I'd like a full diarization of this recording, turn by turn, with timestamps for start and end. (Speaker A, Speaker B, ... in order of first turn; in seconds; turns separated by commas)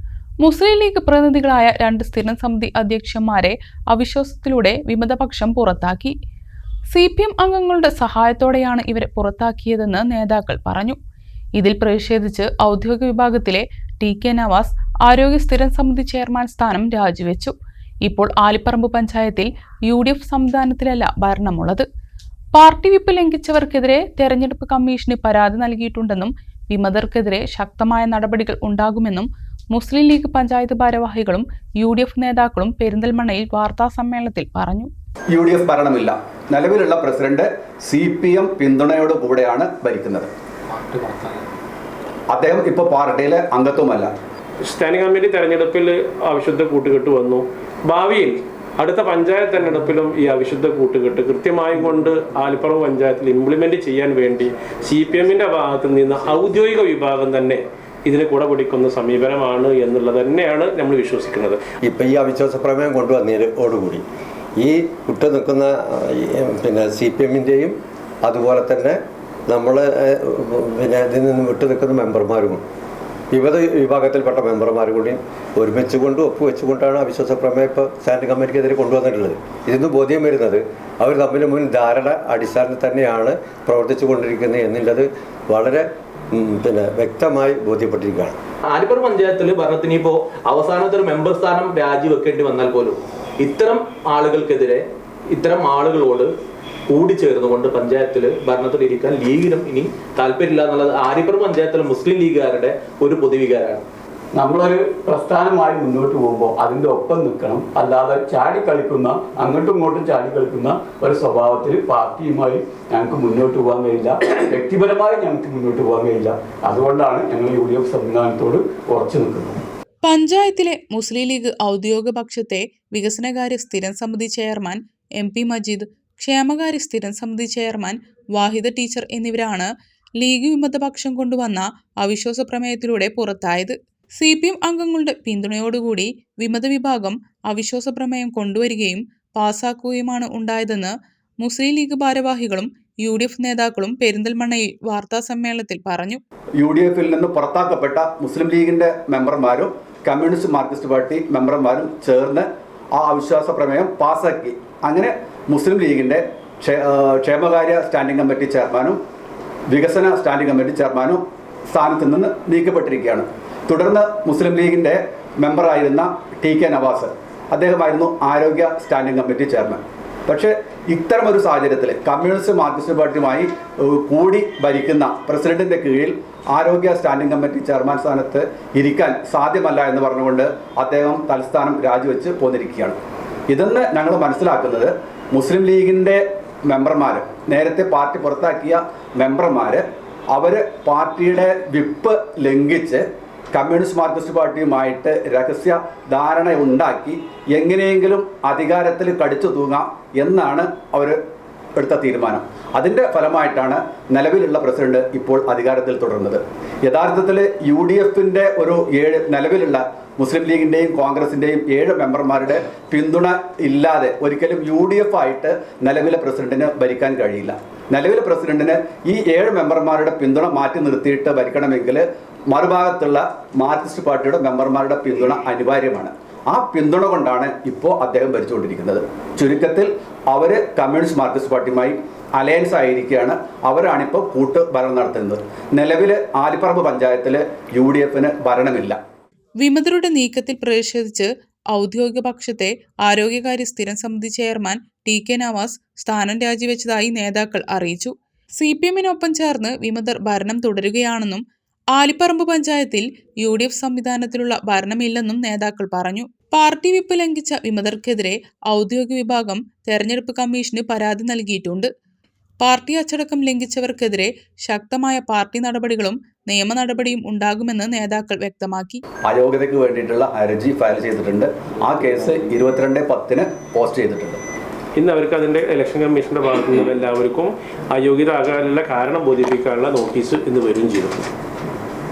Speaker A: 0.4-6.2, Speaker A: 6.9-11.0, Speaker A: 11.6-21.9, Speaker A: 22.5-34.9, Speaker B: 35.3-40.3, Speaker B: 42.3-44.1, Speaker C: 44.6-61.6, Speaker D: 61.9-64.0, Speaker D: 64.6-72.6, Speaker D: 73.3-88.4, Speaker E: 88.7-94.8, Speaker E: 95.3-96.3, Speaker E: 96.9-103.8, Speaker F: 104.3-119.6, Speaker A: 120.0-146.2, Speaker B: 146.6-159.0, Speaker B: 159.7-183.0, Speaker B: 183.5-201.2, Speaker B: 201.8-239.0, Speaker A: 239.6-251.4, Speaker A: 251.9-261.9, Speaker A: 262.6-269.0, Speaker B: 269.3-274.4, Speaker C: 275.0-281.3